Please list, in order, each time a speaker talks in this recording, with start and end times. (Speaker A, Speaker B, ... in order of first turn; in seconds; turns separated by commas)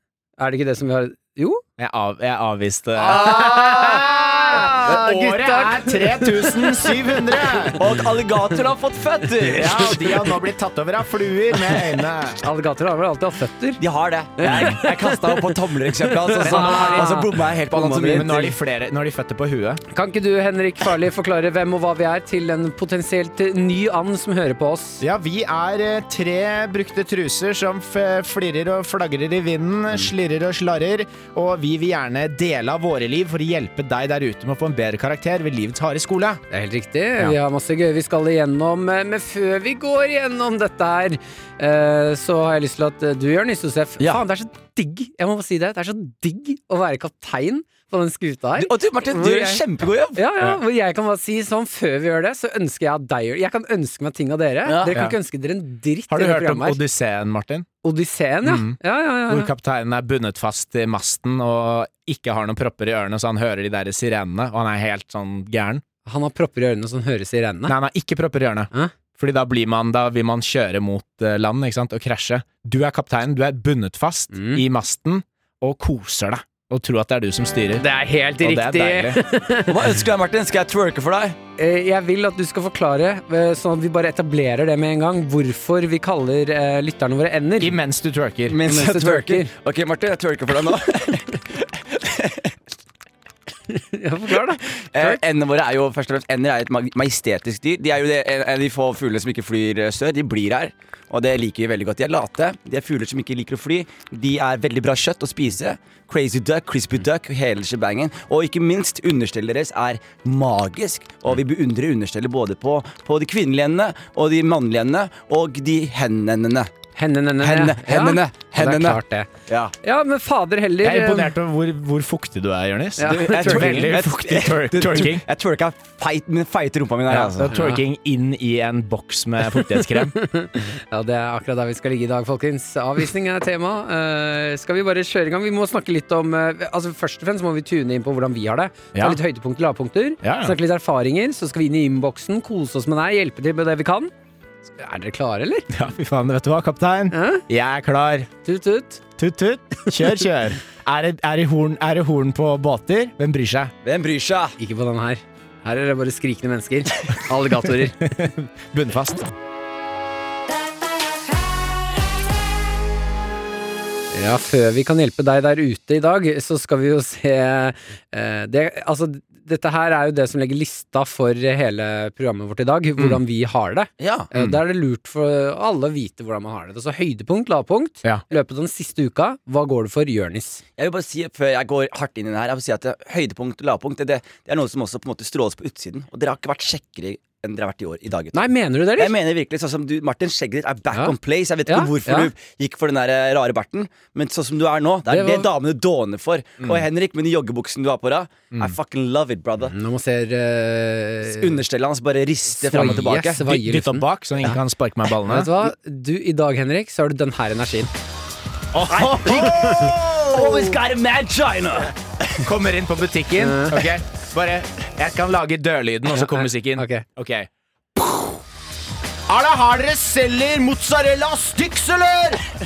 Speaker A: 0.4-1.6, Speaker B: 1.8-7.8, Speaker A: 3.0-7.7, Speaker C: 4.8-5.3, Speaker C: 7.8-10.0, Speaker B: 9.4-12.4, Speaker A: 9.8-10.1, Speaker A: 12.4-13.8, Speaker C: 13.8-18.5, Speaker A: 14.4-18.5, Speaker B: 16.4-19.8, Speaker A: 19.9-25.0, Speaker B: 25.0-36.4, Speaker A: 36.5-49.6, Speaker C: 48.6-50.2, Speaker A: 50.1-56.8, Speaker C: 54.6-54.9, Speaker B: 54.9-55.2, Speaker B: 56.1-57.6, Speaker A: 57.8-59.5, Speaker B: 58.4-65.8, Speaker A: 66.0-67.8, Speaker B: 67.7-77.8, Speaker A: 74.3-74.6, Speaker A: 77.8-79.8, Speaker B: 78.4-79.2, Speaker C: 79.7-81.4, Speaker A: 81.6-87.7, Speaker B: 87.6-88.5, Speaker C: 88.5-92.5, Speaker A: 88.6-89.5, Speaker A: 93.7-95.2, Speaker C: 94.7-116.7, Speaker A: 117.0-119.3, Speaker C: 117.4-119.7, Speaker A: 119.8-121.3, Speaker B: 120.8-125.2, Speaker A: 123.0-123.9, Speaker C: 123.1-127.5, Speaker B: 127.1-130.1, Speaker A: 127.5-127.8, Speaker A: 129.8-144.1, Speaker B: 138.9-139.2, Speaker B: 140.2-140.6, Speaker A: 144.8-145.7, Speaker B: 145.7-148.3, Speaker A: 147.1-147.4, Speaker A: 148.4-149.0, Speaker B: 149.2-153.7, Speaker C: 153.8-154.5, Speaker A: 154.6-158.0, Speaker B: 158.0-159.3, Speaker A: 164.1-180.6, Speaker C: 174.0-174.3, Speaker C: 180.8-188.4, Speaker A: 188.3-189.1, Speaker C: 188.9-199.7, Speaker A: 191.7-192.3, Speaker A: 195.1-195.5, Speaker A: 199.7-201.6, Speaker C: 201.2-203.4, Speaker A: 202.6-204.6, Speaker B: 202.8-205.6, Speaker A: 205.3-207.9, Speaker B: 208.7-210.7, Speaker C: 208.9-212.4, Speaker A: 209.4-209.9, Speaker B: 212.4-218.4, Speaker A: 213.4-213.9, Speaker A: 216.1-217.0, Speaker B: 219.3-222.4